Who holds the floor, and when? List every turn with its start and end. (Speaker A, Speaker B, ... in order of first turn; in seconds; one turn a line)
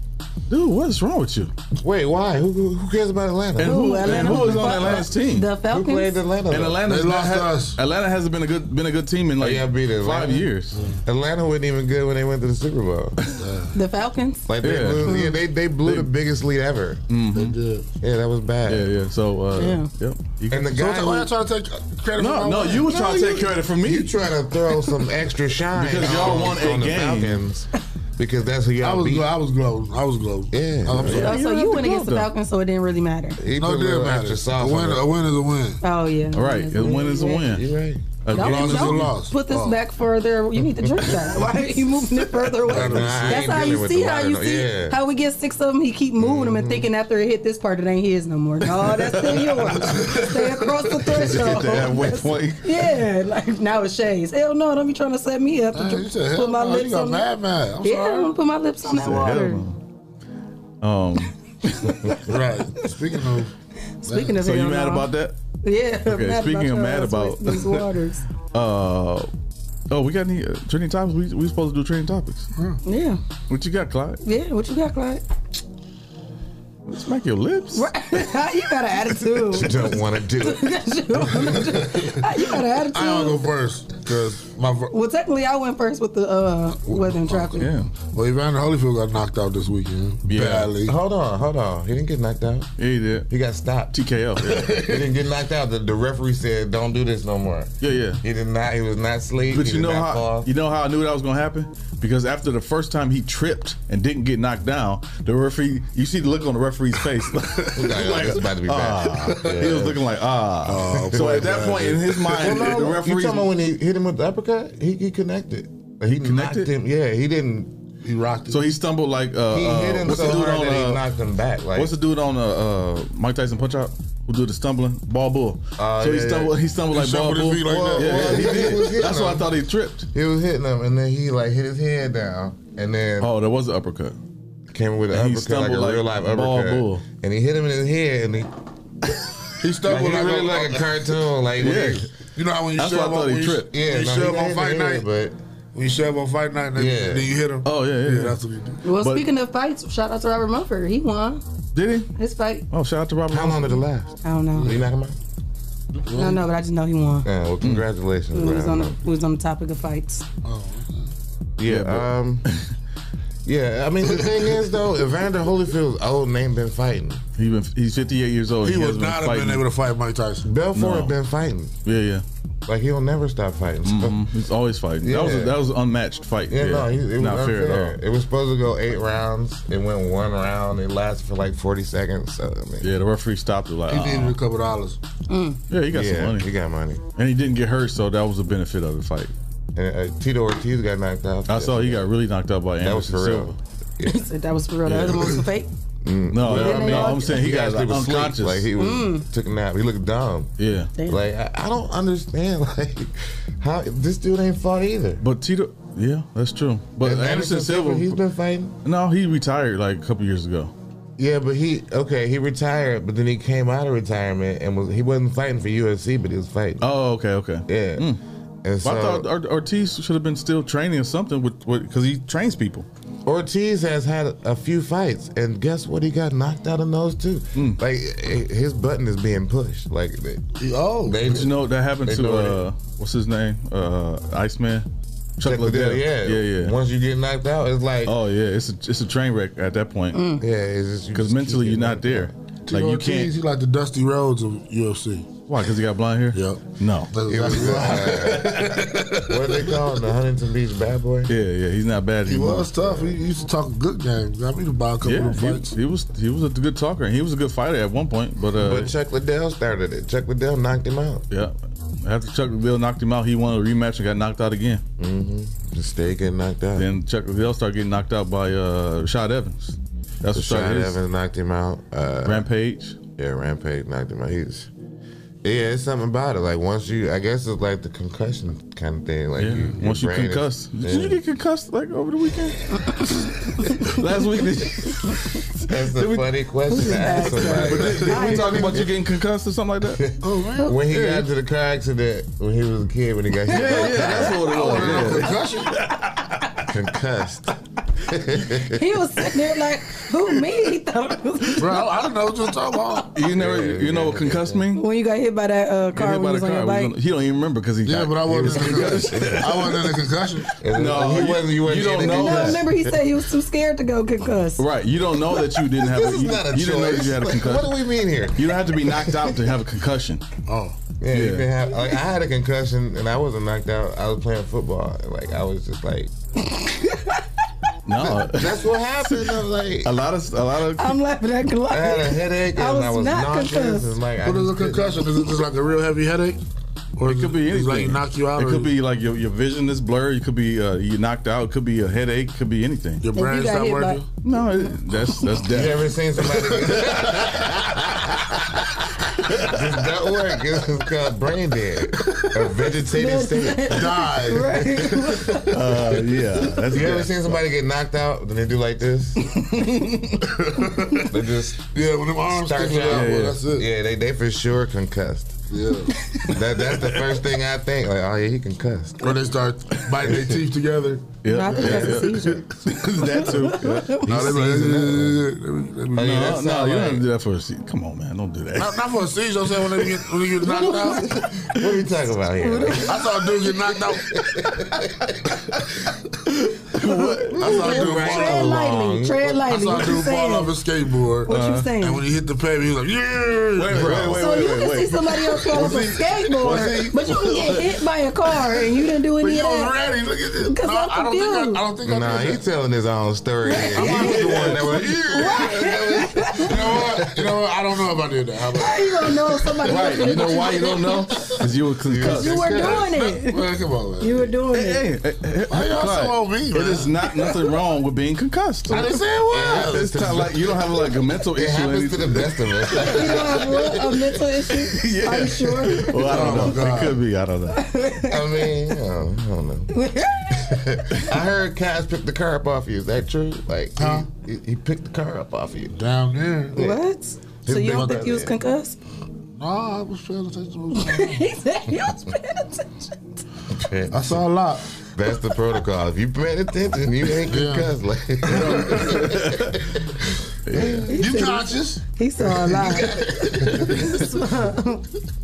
Speaker A: 0.5-1.5
Speaker B: 1.8-5.0
Speaker A: 3.6-5.5
Speaker C: 3.6-6.2
Speaker B: 5.6-6.8
Speaker A: 6.5-10.8
Speaker D: 6.8-7.8
Speaker B: 9.4-10.5
Speaker D: 10.7-11.0
Speaker B: 11.0-13.2
Speaker D: 13.4-13.7
Speaker C: 13.7-14.5
Speaker B: 14.5-17.0
Speaker A: 14.6-15.2
Speaker C: 15.0-15.3
Speaker A: 17.1-17.6
Speaker D: 17.3-17.9
Speaker B: 18.0-18.9
Speaker A: 18.7-20.7
Speaker C: 19.5-19.9
Speaker B: 20.5-21.3
Speaker D: 20.7-23.0
Speaker A: 22.2-24.1
Speaker C: 22.9-23.5
Speaker B: 23.8-29.3
Speaker A: 25.7-27.4
Speaker D: 28.8-31.3
Speaker B: 30.5-31.3
Speaker A: 31.0-32.3
Speaker C: 31.1-33.4
Speaker B: 33.4-35.1
Speaker D: 33.5-35.8
Speaker C: 35.8-37.5
Speaker A: 36.3-37.7
Speaker B: 36.8-38.2
Speaker A: 38.2-39.1
Speaker D: 38.3-39.8
Speaker C: 38.3-57.3
Speaker B: 40.6-41.5
Speaker D: 42.6-43.5
Speaker B: 42.7-45.0
Speaker B: 46.2-46.9
Speaker A: 48.8-50.1
Speaker A: 51.1-52.6
Speaker D: 55.7-58.4
Speaker C: 57.8-59.6
Speaker A: 58.9-59.8
Speaker A: 60.8-62.1
Speaker C: 61.9-62.2
Speaker D: 62.3-63.5
Speaker C: 64.0-65.1
Speaker D: 64.1-64.4
Speaker A: 64.4-65.3
Speaker C: 65.6-68.2
Speaker A: 66.0-67.8
Speaker A: 68.5-69.3
Speaker A: 69.9-72.5
Speaker C: 72.8-73.2
Speaker A: 73.5-74.2
Speaker C: 74.2-75.2
Speaker A: 76.9-77.9
Speaker C: 77.7-79.8
Speaker B: 79.4-80.8
Speaker C: 80.4-83.4
Speaker D: 81.4-84.9
Speaker C: 84.9-87.7
Speaker D: 86.8-90.9
Speaker A: 87.6-87.9
Speaker A: 90.3-90.7
Speaker B: 90.8-92.7
Speaker A: 92.8-93.2
Speaker B: 93.3-94.0
Speaker A: 93.9-94.8
Speaker D: 94.5-94.8
Speaker B: 94.8-100.5
Speaker A: 97.8-98.2
Speaker A: 99.5-113.5
Speaker B: 107.8-110.0
Speaker D: 109.6-109.9
Speaker D: 110.6-112.7
Speaker B: 110.9-111.6
Speaker B: 112.3-117.7
Speaker A: 116.2-116.7
Speaker D: 118.0-118.7
Speaker A: 118.5-121.0
Speaker B: 119.5-121.9
Speaker A: 121.7-130.1
Speaker B: 125.8-126.6
Speaker D: 126.9-128.8
Speaker B: 127.6-129.5
Speaker B: 130.1-133.3
Speaker A: 133.2-134.2
Speaker B: 134.7-138.5
Speaker A: 135.1-137.0
Speaker D: 139.6-140.8
Speaker B: 139.8-142.1
Speaker A: 141.6-142.1
Speaker D: 142.3-145.1
Speaker A: 142.8-143.7
Speaker B: 143.7-145.3
Speaker D: 145.7-148.8
Speaker B: 146.7-147.4
Speaker A: 147.6-148.4
Speaker C: 148.8-151.4
Speaker A: 148.9-149.3
Speaker A: 151.7-152.1
Speaker C: 152.2-152.7
Speaker A: 152.7-153.8
Speaker B: 153.3-155.2
Speaker C: 154.2-154.7
Speaker D: 154.6-154.8
Speaker D: 155.9-156.4
Speaker C: 156.1-157.3
Speaker B: 157.2-159.0
Speaker C: 158.3-160.2
Speaker D: 160.4-161.1
Speaker B: 161.6-162.4
Speaker A: 161.7-162.7
Speaker B: 163.4-167.2
Speaker D: 164.1-164.6
Speaker A: 167.4-169.6
Speaker D: 168.6-170.4
Speaker B: 170.4-171.7
Speaker A: 170.7-171.2
Speaker A: 171.8-172.2
Speaker B: 172.7-174.3
Speaker A: 173.8-178.0
Speaker B: 175.0-175.6
Speaker B: 176.5-182.9
Speaker A: 182.8-184.3
Speaker D: 183.9-185.0
Speaker C: 185.3-185.6
Speaker A: 185.7-186.5
Speaker B: 185.9-187.0
Speaker A: 187.2-189.3
Speaker B: 189.8-192.1
Speaker A: 191.5-193.6
Speaker B: 192.8-194.2
Speaker C: 194.1-195.7
Speaker B: 196.0-205.2
Speaker A: 196.3-198.7
Speaker C: 196.5-197.3
Speaker C: 198.8-199.2
Speaker A: 200.6-200.9
Speaker A: 205.2-208.2
Speaker B: 207.0-208.7
Speaker A: 208.8-210.7
Speaker B: 211.2-216.8
Speaker A: 216.8-218.2
Speaker B: 217.7-218.1
Speaker B: 218.6-219.3
Speaker A: 218.8-222.8
Speaker B: 223.2-230.4
Speaker A: 227.5-227.8
Speaker D: 230.6-231.4
Speaker B: 231.0-232.7
Speaker A: 231.2-234.8
Speaker A: 235.4-236.7
Speaker B: 235.4-238.2
Speaker A: 238.0-240.3
Speaker C: 240.1-240.4
Speaker B: 240.4-242.3
Speaker A: 241.1-243.3
Speaker D: 242.7-245.3
Speaker A: 245.5-247.1
Speaker D: 246.3-249.6
Speaker B: 247.2-251.3
Speaker A: 251.3-252.7
Speaker D: 252.2-255.7
Speaker B: 252.8-253.2
Speaker A: 255.0-258.9
Speaker B: 258.5-261.2
Speaker A: 261.3-264.8
Speaker B: 265.0-266.9
Speaker A: 266.8-271.0
Speaker B: 270.3-272.5
Speaker A: 272.2-273.0
Speaker B: 273.1-274.7
Speaker B: 275.4-281.2
Speaker A: 279.4-286.3
Speaker C: 282.7-283.9
Speaker B: 285.7-289.0
Speaker C: 286.7-288.7
Speaker A: 287.0-290.0
Speaker D: 287.8-288.2
Speaker B: 289.9-295.2
Speaker D: 290.2-290.7
Speaker A: 293.5-296.5
Speaker D: 294.4-295.8
Speaker B: 296.7-297.5
Speaker B: 298.1-298.8
Speaker C: 298.7-301.9
Speaker D: 301.6-303.1
Speaker A: 303.1-304.8
Speaker B: 303.3-304.7
Speaker C: 304.7-306.9
Speaker A: 305.9-309.6
Speaker D: 307.8-310.5
Speaker B: 308.3-309.8
Speaker B: 310.6-312.7
Speaker A: 310.7-312.7
Speaker C: 312.0-314.6
Speaker A: 314.6-317.8
Speaker B: 315.7-319.4
Speaker A: 318.4-320.2
Speaker D: 320.5-320.8
Speaker B: 321.0-326.1
Speaker A: 321.1-321.5
Speaker C: 326.5-327.2
Speaker A: 327.9-331.0
Speaker B: 327.9-330.0
Speaker C: 330.8-333.9
Speaker B: 331.7-335.2
Speaker D: 334.2-336.4
Speaker D: 337.0-338.7
Speaker A: 337.0-343.0
Speaker D: 343.0-344.1
Speaker C: 343.1-344.0
Speaker A: 344.2-347.8
Speaker B: 345.5-347.9
Speaker A: 349.3-349.6
Speaker B: 349.4-353.9
Speaker C: 352.9-355.5
Speaker D: 353.7-355.2
Speaker A: 355.5-357.4
Speaker B: 356.7-359.2
Speaker A: 359.4-360.1
Speaker D: 360.4-361.1
Speaker B: 361.1-365.4
Speaker D: 361.7-363.6
Speaker A: 362.8-363.4
Speaker D: 365.5-365.9
Speaker B: 366.3-369.2
Speaker D: 369.0-372.0
Speaker A: 371.2-375.0
Speaker C: 371.3-374.0
Speaker D: 374.1-376.3
Speaker B: 374.7-375.1
Speaker B: 376.0-377.1
Speaker A: 376.0-378.8
Speaker D: 378.6-381.1
Speaker C: 380.5-381.0
Speaker B: 380.6-380.9
Speaker B: 381.5-384.9
Speaker C: 382.4-383.0
Speaker D: 382.9-384.1
Speaker A: 386.4-387.8
Speaker C: 386.9-390.5
Speaker D: 387.3-388.5
Speaker B: 387.4-389.6
Speaker D: 389.5-394.2
Speaker C: 391.3-392.0
Speaker A: 391.3-391.7
Speaker A: 393.6-397.6
Speaker B: 393.7-394.2
Speaker C: 394.1-399.8
Speaker D: 395.5-397.1
Speaker D: 399.2-402.4
Speaker C: 400.5-401.6
Speaker B: 401.8-406.0
Speaker C: 403.4-404.3
Speaker D: 403.7-410.4
Speaker A: 404.0-405.1
Speaker C: 405.0-406.7
Speaker C: 408.6-411.3
Speaker A: 409.6-412.8
Speaker B: 411.9-412.8
Speaker C: 412.0-413.4
Speaker D: 412.2-414.3
Speaker C: 414.0-414.8
Speaker A: 414.5-418.9
Speaker D: 415.5-417.0
Speaker D: 418.7-420.1
Speaker B: 419.3-424.2
Speaker A: 419.4-423.2
Speaker C: 422.9-426.6
Speaker A: 424.7-427.6
Speaker D: 426.1-427.0
Speaker C: 427.5-428.5
Speaker B: 428.0-429.7
Speaker C: 429.7-430.6
Speaker B: 430.3-435.7
Speaker D: 433.8-434.1
Speaker D: 435.7-436.6
Speaker B: 436.5-436.8
Speaker C: 436.6-438.8
Speaker B: 437.4-438.3
Speaker D: 437.6-437.9
Speaker D: 439.3-441.3
Speaker C: 440.7-442.9
Speaker B: 443.5-444.2
Speaker D: 443.9-444.6
Speaker B: 444.9-449.6
Speaker D: 447.3-447.7
Speaker A: 448.3-449.6
Speaker D: 448.4-448.9
Speaker A: 450.5-450.9
Speaker B: 450.5-450.9
Speaker C: 450.9-454.9
Speaker D: 450.9-452.9
Speaker B: 452.6-453.8